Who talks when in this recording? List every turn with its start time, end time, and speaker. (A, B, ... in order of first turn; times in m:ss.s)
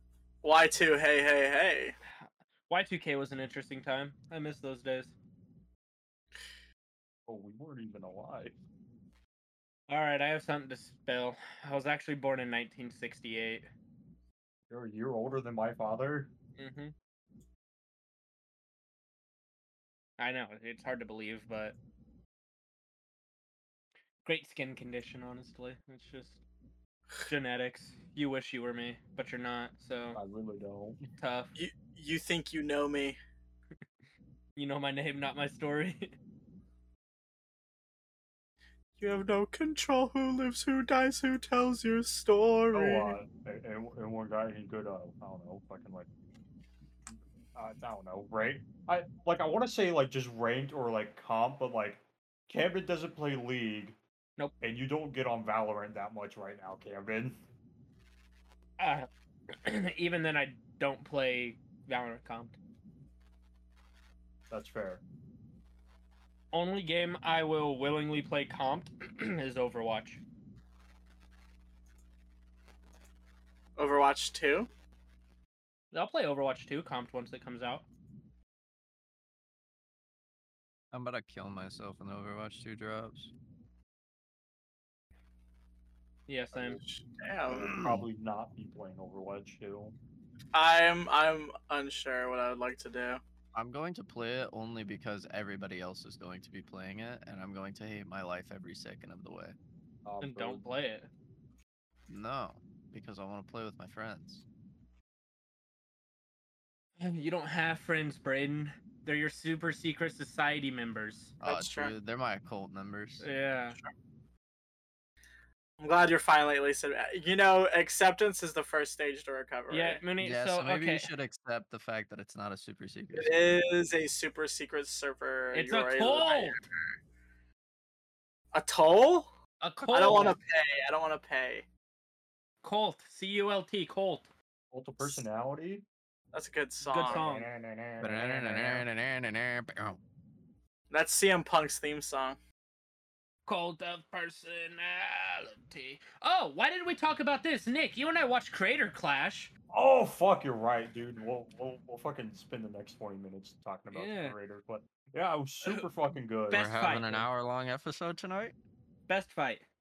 0:00.4-0:02.0 A
0:02.7-0:05.2 B
0:07.3-0:08.6 C
0:09.9-0:13.7 B
0:14.7-0:16.3 C
0:16.6-0:16.9 B
0:20.2-0:21.8 B
0:24.2-0:26.4 B
0:27.2-0:30.2 B
0:30.1-0:31.0 C
0:31.2-0:31.5 B
0:31.6-0:33.2 A
0:34.6-0:36.1 B
0:39.0-0:43.2 A
0:42.7-0:46.1 C
0:47.1-0:54.0 C
0:54.6-0:57.4 C
0:58.8-1:02.6 B
1:04.5-1:05.0 C
1:06.5-1:10.2 B
1:13.8-1:14.7 A
1:15.9-1:17.8 B
1:20.9-1:23.3 D
1:26.3-1:26.8 B
1:26.5-1:27.7 A
1:27.5-1:30.0 C
1:27.5-1:28.0 D
1:30.5-1:33.2 A
1:33.5-1:39.6 D
1:40.0-1:40.6 C
1:40.2-1:41.1 B
1:42.1-1:44.4 D
1:47.0-1:51.3 B
1:51.4-1:53.2 D
1:51.4-1:51.9 A
1:53.2-1:53.8 B
1:55.8-2:00.0 A
1:59.7-2:01.1 B
2:00.2-2:03.5 D
2:03.1-2:06.8 A
2:05.5-2:06.6 B
2:08.5-2:09.3 A
2:09.6-2:10.4 B
2:09.9-2:11.7 A
2:12.6-2:14.3 B
2:14.7-2:15.8 C
2:16.3-2:17.2 A
2:16.8-2:17.5 B
2:17.0-2:18.8 C
2:18.0-2:20.0 D
2:20.9-2:22.4 A
2:23.4-2:29.5 B
2:29.7-2:36.7 C
2:33.9-2:34.4 B
2:36.5-2:37.3 B
2:36.5-2:38.5 D
2:39.1-2:39.6 B